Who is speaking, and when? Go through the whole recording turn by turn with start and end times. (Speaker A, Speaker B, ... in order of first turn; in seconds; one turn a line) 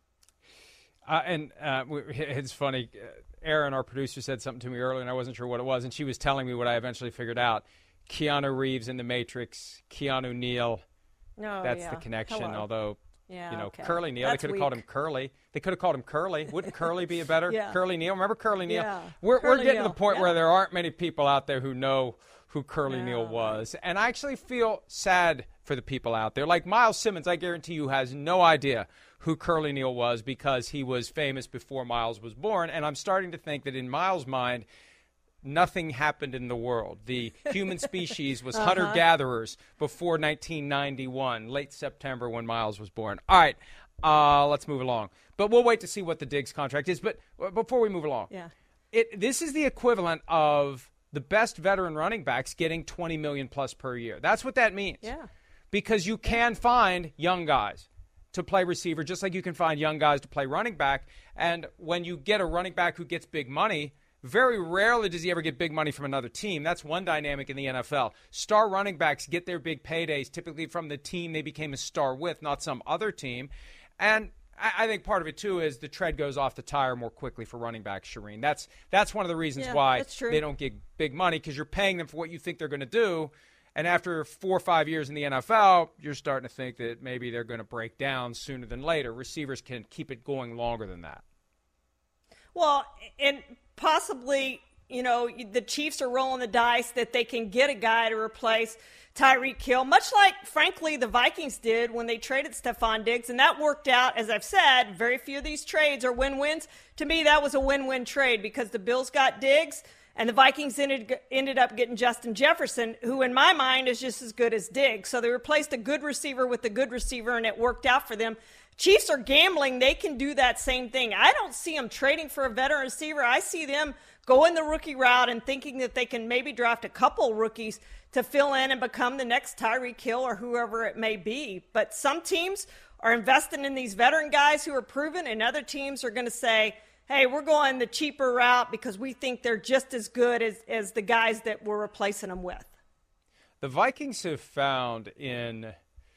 Speaker A: 1.1-10.8
Speaker B: 11.4-12.6
Speaker A: 11.6-13.0
Speaker B: 13.3-14.8
Speaker A: 13.5-34.6
Speaker B: 17.5-17.8
Speaker B: 18.7-20.3
Speaker B: 22.9-23.6
Speaker A: 35.4-48.3
Speaker B: 38.5-39.0
Speaker A: 48.9-55.1
Speaker B: 55.0-55.3
Speaker A: 55.7-91.2
Speaker B: 79.6-80.4
Speaker B: 92.5-142.7
Speaker A: 143.6-145.7